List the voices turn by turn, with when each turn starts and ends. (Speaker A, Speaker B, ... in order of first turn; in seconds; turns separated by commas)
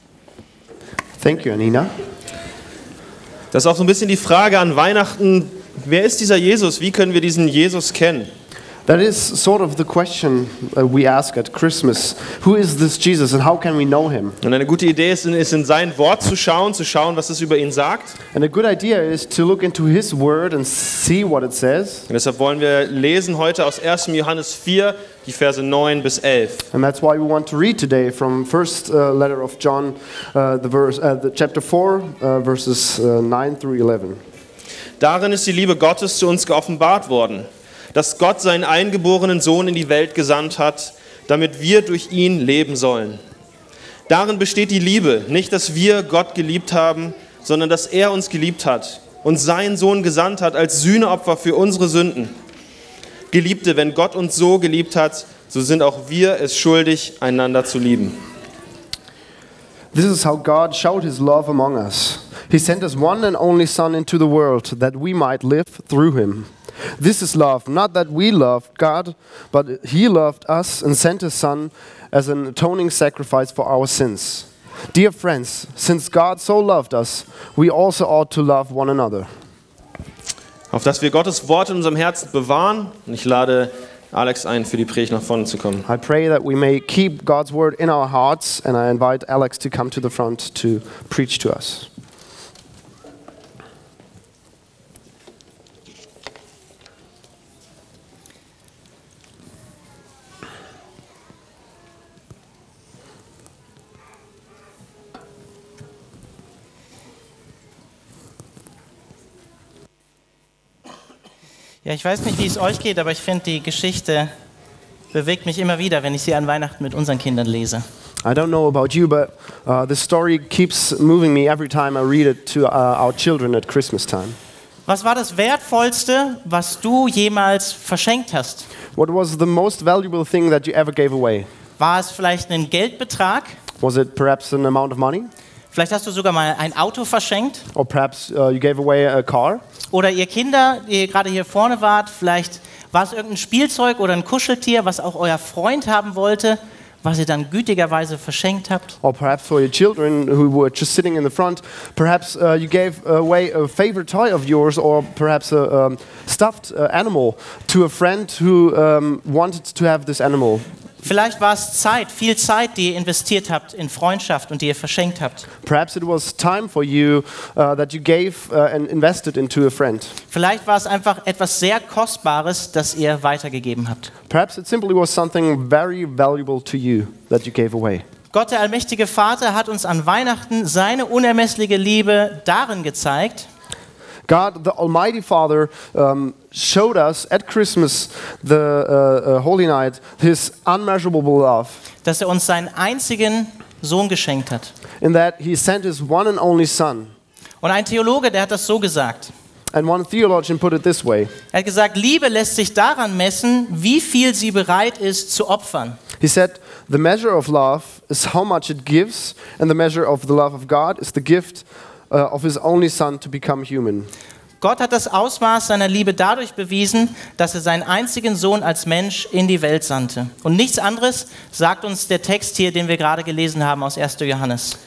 Speaker A: 1.2-1.9, Speaker B: 3.5-8.3, Speaker A: 8.9-14.4, Speaker B: 14.4-18.2, Speaker A: 18.3-22.1, Speaker B: 22.1-26.6, Speaker A: 26.7-34.2, Speaker B: 35.0-43.2, Speaker B: 44.1-52.4, Speaker B: 53.3-58.2, Speaker A: 59.9-79.3, Speaker B: 80.7-85.9, Speaker A: 85.8-91.9, Speaker C: 111.8-114.3, Speaker C: 115.1-117.8, Speaker A: 118.2-124.4, Speaker C: 124.9-128.7, Speaker A: 128.9-131.5, Speaker C: 131.8-133.6, Speaker A: 133.8-135.3, Speaker C: 135.7-137.7, Speaker A: 137.7-139.6, Speaker C: 139.9-149.0, Speaker A: 149.0-160.7, Speaker C: 161.0-165.5, Speaker A: 165.6-170.2, Speaker C: 170.3-174.1, Speaker A: 174.3-178.1, Speaker C: 178.3-183.5, Speaker A: 184.3-191.8, Speaker C: 192.0-194.7, Speaker A: 195.0-197.1, Speaker C: 197.6-199.3, Speaker A: 199.7-201.3, Speaker C: 201.5-206.0, Speaker A: 206.2-214.1, Speaker C: 214.6-224.8